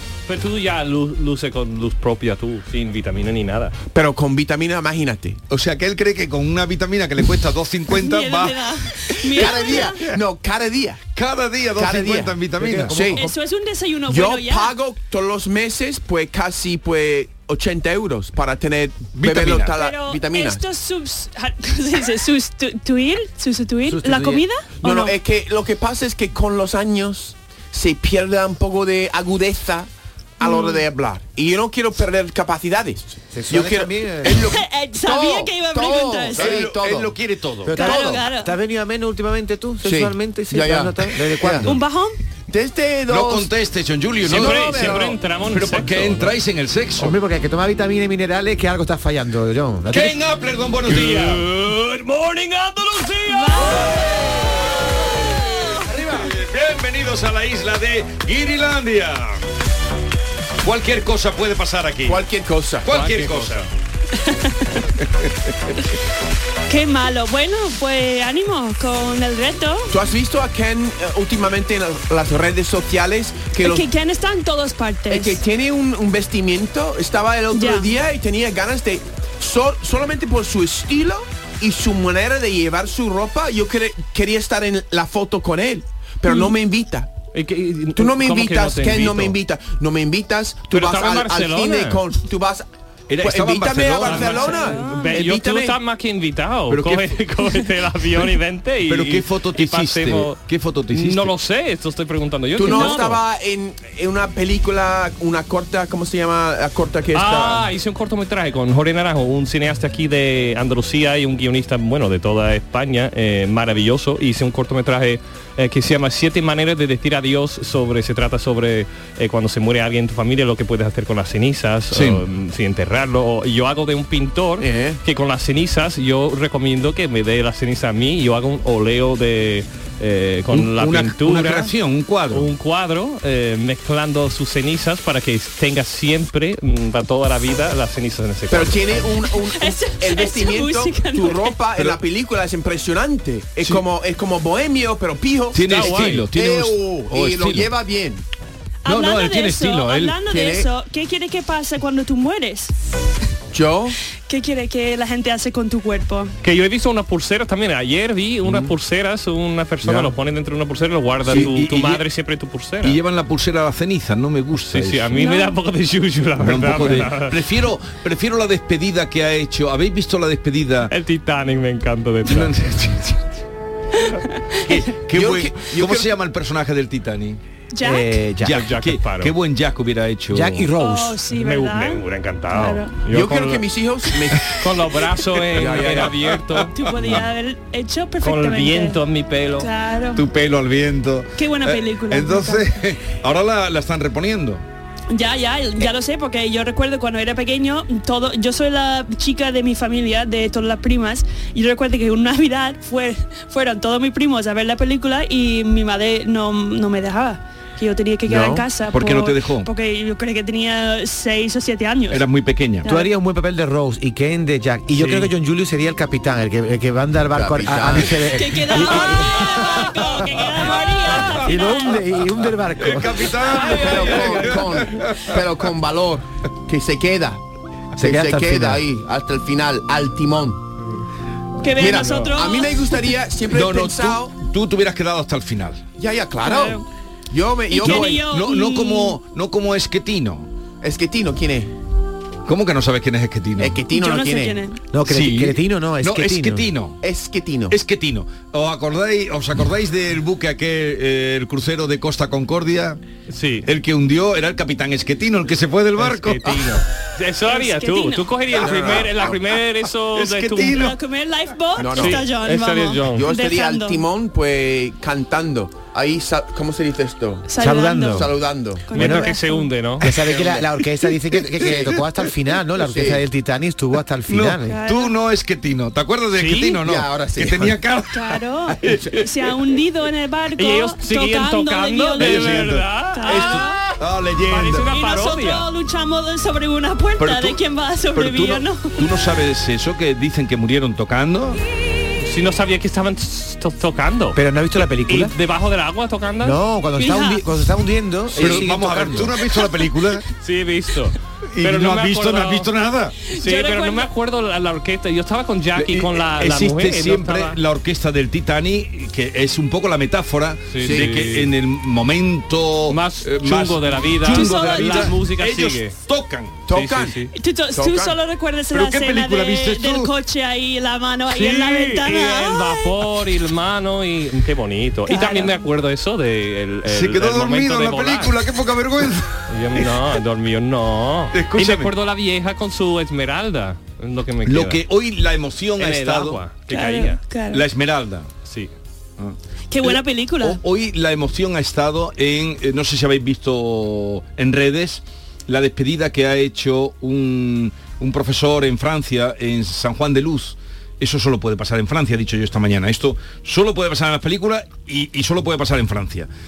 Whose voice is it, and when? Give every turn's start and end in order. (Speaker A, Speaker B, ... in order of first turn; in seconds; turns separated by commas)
Speaker A: 0.3-3.7, Speaker B: 3.9-5.4, Speaker C: 5.5-8.7, Speaker D: 7.9-10.0, Speaker B: 9.3-11.0, Speaker C: 9.4-9.8, Speaker C: 11.1-12.9, Speaker B: 11.8-13.2, Speaker E: 12.6-13.3, Speaker D: 13.1-14.7, Speaker B: 14.1-20.6, Speaker C: 19.1-19.8, Speaker D: 19.8-25.1, Speaker E: 23.9-24.4, Speaker B: 24.8-37.1, Speaker D: 30.4-30.8, Speaker E: 33.3-34.5, Speaker D: 34.5-36.6, Speaker C: 36.3-37.9, Speaker E: 37.6-41.8, Speaker D: 37.8-38.5, Speaker B: 37.8-38.1, Speaker B: 39.8-41.7, Speaker D: 41.6-42.2, Speaker B: 42.5-43.5, Speaker C: 43.1-47.1, Speaker B: 44.2-45.1, Speaker A: 44.2-46.3, Speaker E: 47.0-50.2, Speaker C: 49.9-51.8, Speaker A: 50.9-53.7, Speaker D: 53.3-54.0, Speaker C: 55.2-59.4, Speaker D: 55.3-55.9, Speaker C: 60.6-62.2, Speaker B: 62.0-62.9, Speaker C: 62.8-63.6, Speaker A: 62.9-63.7, Speaker D: 64.2-64.8, Speaker D: 66.7-69.9, Speaker B: 69.9-73.8, Speaker D: 73.6-75.4, Speaker B: 75.1-87.1, Speaker D: 77.5-77.9, Speaker D: 86.2-86.5, Speaker A: 87.3-89.4, Speaker B: 88.0-92.7, Speaker A: 90.7-92.0, Speaker C: 93.1-94.6, Speaker B: 93.2-95.8, Speaker A: 94.0-100.4, Speaker D: 94.6-95.0, Speaker C: 96.7-97.2, Speaker C: 98.9-101.3, Speaker A: 100.9-103.2, Speaker B: 102.5-107.7, Speaker D: 102.6-103.0, Speaker A: 107.1-131.7, Speaker C: 121.9-122.2, Speaker B: 124.6-125.0, Speaker C: 130.5-132.5, Speaker A: 132.3-138.8, Speaker B: 138.5-148.2, Speaker D: 139.2-141.6, Speaker C: 145.5-147.7, Speaker A: 145.7-146.2, Speaker C: 148.8-150.2, Speaker D: 148.8-152.7, Speaker B: 150.2-150.7, Speaker B: 153.5-153.9, Speaker D: 154.3-156.3, Speaker A: 156.4-163.0, Speaker B: 158.4-158.7, Speaker B: 159.8-160.1, Speaker C: 161.2-162.0, Speaker C: 162.8-165.2, Speaker A: 164.6-167.3, Speaker D: 165.2-165.5, Speaker C: 166.4-170.9, Speaker A: 170.9-172.5, Speaker C: 172.2-173.2, Speaker C: 174.6-177.4, Speaker B: 175.1-176.1, Speaker D: 177.7-178.2, Speaker E: 177.8-178.6, Speaker C: 178.4-180.7, Speaker A: 178.5-179.3, Speaker E: 180.3-181.2, Speaker D: 180.7-182.9, Speaker A: 181.3-183.6, Speaker B: 183.1-184.6, Speaker A: 184.4-186.8, Speaker B: 185.5-186.3, Speaker D: 186.7-189.0, Speaker A: 188.2-189.7, Speaker D: 189.6-190.2, Speaker C: 190.1-194.6, Speaker D: 191.4-192.7, Speaker D: 195.1-212.3, Speaker E: 208.3-208.5, Speaker C: 208.9-209.7, Speaker C: 212.1-212.8, Speaker D: 212.8-213.1, Speaker E: 212.8-220.5, Speaker B: 217.3-218.3, Speaker D: 218.2-222.0, Speaker E: 221.4-224.5, Speaker C: 222.8-225.4, Speaker B: 223.6-227.4, Speaker B: 227.9-230.6, Speaker E: 228.0-228.8, Speaker D: 231.6-233.1, Speaker A: 231.8-232.3, Speaker B: 231.8-234.3, Speaker C: 233.5-235.8, Speaker B: 236.0-238.2, Speaker D: 236.4-236.8, Speaker D: 237.7-239.2, Speaker C: 237.8-240.5, Speaker B: 240.8-241.7, Speaker C: 242.4-243.8, Speaker B: 243.6-244.6, Speaker D: 243.9-244.8, Speaker E: 244.9-246.7, Speaker C: 245.0-247.0, Speaker B: 247.0-247.8, Speaker C: 247.7-253.0, Speaker A: 253.3-253.7, Speaker C: 253.7-256.7, Speaker A: 256.0-260.9, Speaker D: 257.4-258.4, Speaker B: 258.5-259.3, Speaker C: 258.8-259.3, Speaker C: 260.1-260.9, Speaker D: 260.7-264.0, Speaker B: 261.8-262.3, Speaker A: 261.9-263.2, Speaker B: 263.1-267.5, Speaker D: 267.5-268.3, Speaker E: 267.6-268.3, Speaker B: 268.1-268.9, Speaker D: 268.9-269.7, Speaker E: 268.9-269.3, Speaker A: 268.9-270.1, Speaker E: 270.0-274.8, Speaker B: 270.0-270.7, Speaker B: 272.8-273.2, Speaker C: 274.3-279.2, Speaker D: 274.6-275.1, Speaker A: 276.3-276.8, Speaker B: 276.8-277.8, Speaker D: 278.1-283.8, Speaker A: 280.6-283.6, Speaker C: 282.2-284.9, Speaker A: 284.4-285.6, Speaker D: 284.9-289.0, Speaker C: 287.2-287.6, Speaker C: 288.1-291.6, Speaker A: 292.2-296.6, Speaker E: 294.3-295.3, Speaker E: 296.4-299.3, Speaker D: 297.0-297.4, Speaker C: 298.4-300.2, Speaker D: 299.5-299.9, Speaker A: 300.4-302.7, Speaker C: 301.5-303.1, Speaker D: 303.3-304.1, Speaker A: 303.3-307.6, Speaker C: 305.8-316.6, Speaker A: 310.7-311.5, Speaker B: 310.8-311.2, Speaker A: 312.9-315.9, Speaker D: 314.2-315.1, Speaker B: 316.7-317.2, Speaker A: 316.7-317.3, Speaker D: 317.3-322.9, Speaker B: 317.7-318.2, Speaker C: 318.7-320.1, Speaker A: 321.3-328.4, Speaker D: 325.1-325.5, Speaker C: 326.9-329.9, Speaker A: 329.5-334.8, Speaker C: 331.3-331.9, Speaker C: 334.4-336.4, Speaker A: 335.8-337.2, Speaker D: 336.7-337.6, Speaker C: 337.5-338.3, Speaker A: 338.4-338.7, Speaker C: 339.2-356.3, Speaker D: 339.7-340.6